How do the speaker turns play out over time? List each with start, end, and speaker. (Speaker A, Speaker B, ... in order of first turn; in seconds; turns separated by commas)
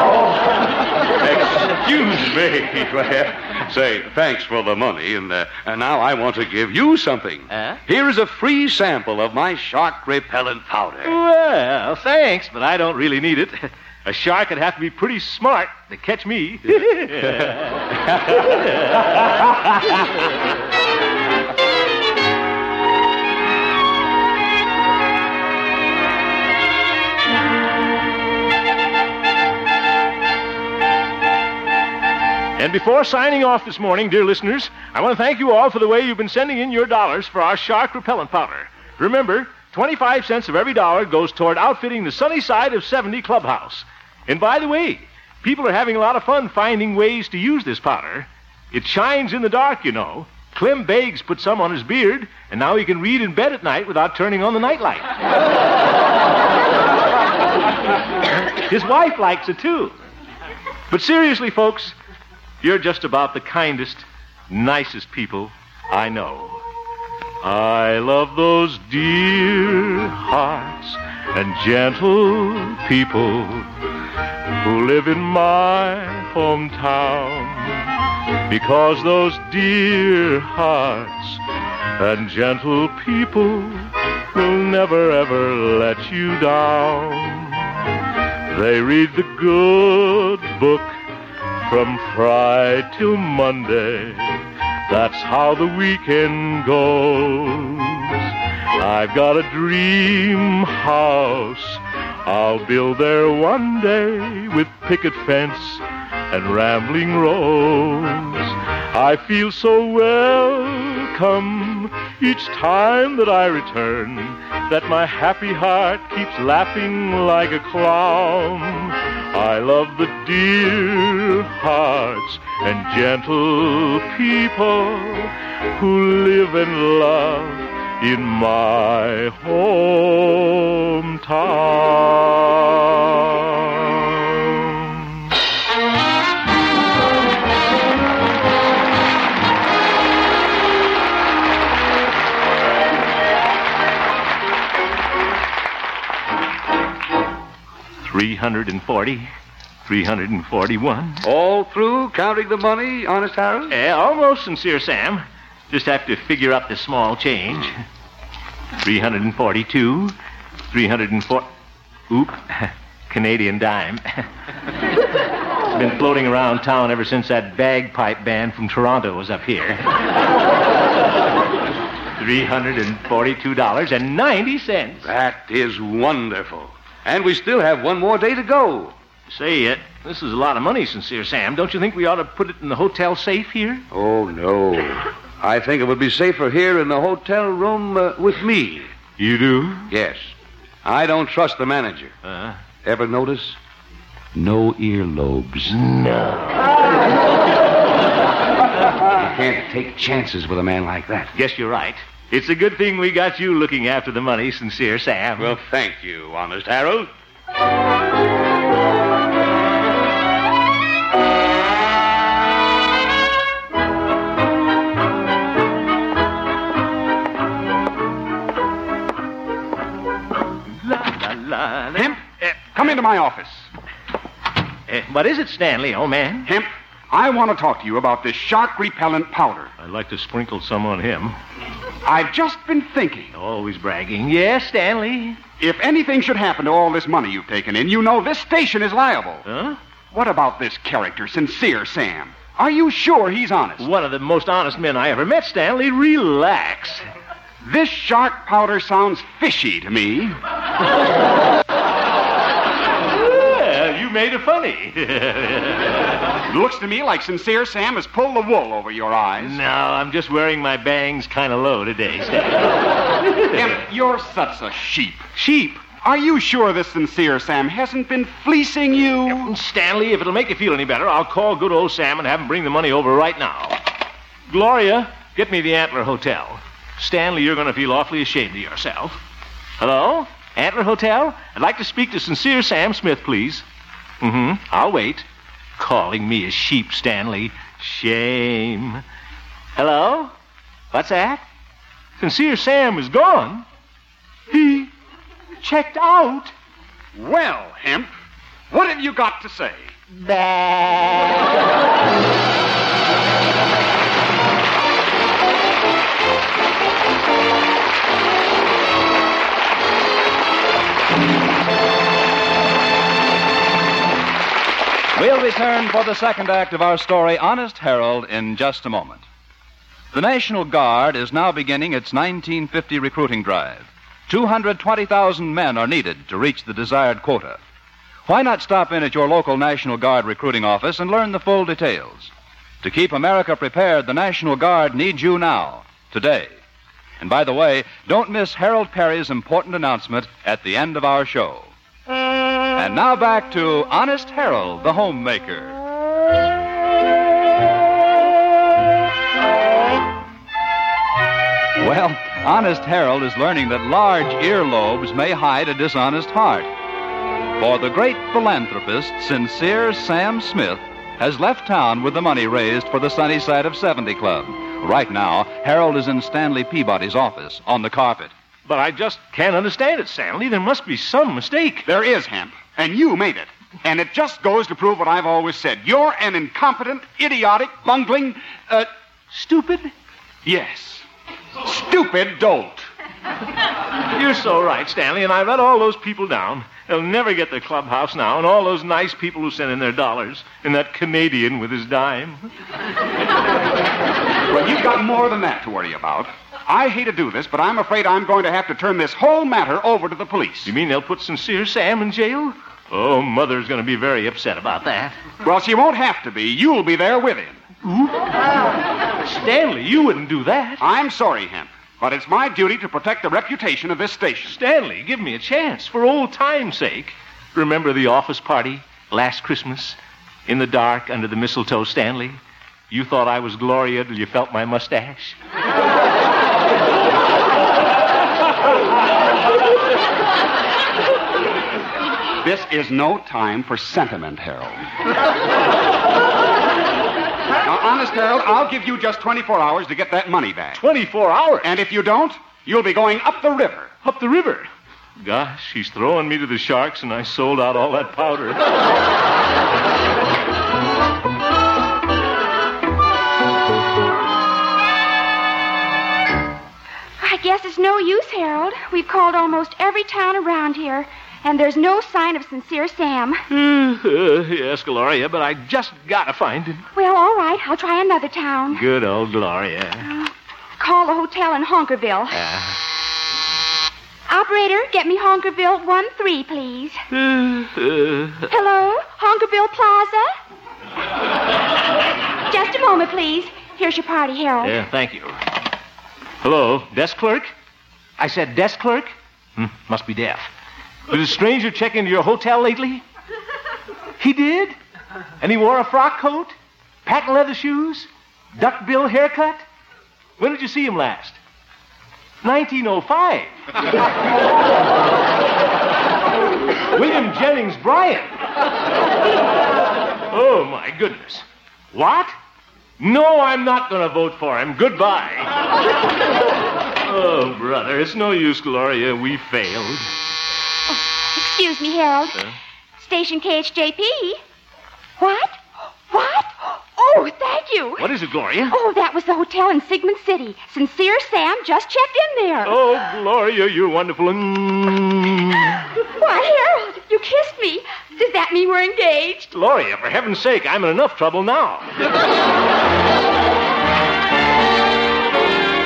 Speaker A: 1.2-11.2, Speaker B: 11.0-19.6, Speaker A: 18.1-18.4, Speaker B: 32.6-55.1, Speaker B: 58.7-59.9, Speaker B: 60.9-61.9, Speaker B: 62.6-66.6, Speaker B: 67.4-73.7, Speaker B: 74.6-77.8, Speaker B: 78.5-81.4, Speaker B: 82.0-87.7, Speaker B: 88.5-91.0, Speaker B: 91.6-98.2, Speaker B: 98.7-135.0, Speaker B: 148.0-149.3, Speaker B: 149.8-151.2, Speaker A: 151.2-153.7, Speaker B: 153.7-157.8, Speaker B: 158.8-160.1, Speaker B: 160.7-161.5, Speaker B: 162.1-164.2, Speaker B: 165.7-169.9, Speaker B: 172.2-175.1, Speaker A: 175.0-178.9, Speaker B: 179.3-183.8, Speaker A: 183.9-188.9, Speaker B: 189.2-189.9, Speaker A: 189.9-190.3, Speaker A: 190.8-192.1, Speaker B: 192.2-192.6, Speaker A: 192.8-193.6, Speaker A: 194.3-195.8, Speaker B: 195.7-196.8, Speaker A: 199.0-201.3, Speaker B: 201.3-205.6, Speaker A: 205.4-207.1, Speaker B: 220.8-222.9, Speaker C: 222.0-223.7, Speaker B: 224.9-226.5, Speaker C: 226.5-229.7, Speaker B: 229.8-231.3, Speaker C: 232.0-233.3, Speaker B: 233.3-235.4, Speaker C: 235.6-239.4, Speaker B: 239.4-239.8, Speaker C: 240.1-243.8, Speaker B: 243.8-247.0, Speaker C: 247.6-250.3, Speaker B: 253.1-256.1, Speaker C: 256.5-259.6, Speaker B: 259.4-263.8, Speaker C: 263.5-265.2, Speaker B: 265.4-266.0, Speaker C: 265.9-269.5, Speaker B: 269.3-273.8, Speaker B: 274.5-279.2, Speaker B: 279.8-283.6, Speaker B: 284.2-285.2, Speaker B: 285.8-289.0, Speaker B: 289.7-290.3, Speaker B: 290.9-291.4, Speaker B: 292.2-293.6, Speaker B: 294.5-294.9, Speaker B: 295.6-296.5, Speaker C: 297.1-298.1, Speaker C: 298.7-299.9, Speaker B: 300.1-301.4, Speaker D: 315.1-319.2, Speaker D: 320.1-327.6, Speaker D: 328.2-332.3, Speaker D: 332.8-336.5, Speaker D: 337.2-341.7, Speaker D: 342.7-345.8, Speaker D: 351.8-356.7, Speaker D: 357.6-368.3, Speaker B: 368.6-371.8, Speaker C: 371.9-378.9, Speaker B: 379.3-379.9, Speaker C: 380.4-381.0, Speaker C: 381.6-382.9, Speaker B: 384.0-392.5, Speaker C: 394.5-400.7, Speaker B: 400.6-405.2, Speaker C: 405.4-407.6, Speaker B: 407.8-408.3, Speaker B: 409.2-410.8, Speaker C: 410.8-414.6, Speaker B: 414.4-425.4, Speaker C: 432.4-434.8, Speaker C: 437.6-440.8, Speaker B: 440.7-441.7, Speaker C: 441.6-443.9, Speaker B: 444.0-444.7, Speaker B: 445.2-448.7, Speaker E: 457.2-463.4, Speaker B: 463.5-466.8, Speaker E: 466.9-468.8, Speaker B: 468.7-470.1, Speaker E: 470.0-472.4, Speaker B: 472.3-472.8, Speaker E: 474.3-477.0, Speaker B: 477.1-478.5, Speaker E: 478.5-480.3, Speaker E: 482.5-484.8, Speaker B: 484.6-485.4, Speaker B: 486.4-487.5, Speaker B: 488.2-490.5, Speaker B: 491.1-493.0, Speaker B: 494.2-494.8, Speaker B: 495.4-499.6, Speaker B: 500.4-501.4, Speaker B: 502.4-503.5, Speaker B: 506.9-508.3, Speaker B: 510.3-512.3, Speaker B: 513.0-515.5, Speaker B: 517.0-520.1, Speaker E: 521.3-522.4, Speaker E: 523.0-524.4, Speaker E: 525.2-528.1, Speaker B: 528.0-528.8, Speaker E: 528.7-532.8, Speaker B: 532.6-535.8, Speaker E: 536.1-539.5, Speaker B: 539.5-541.9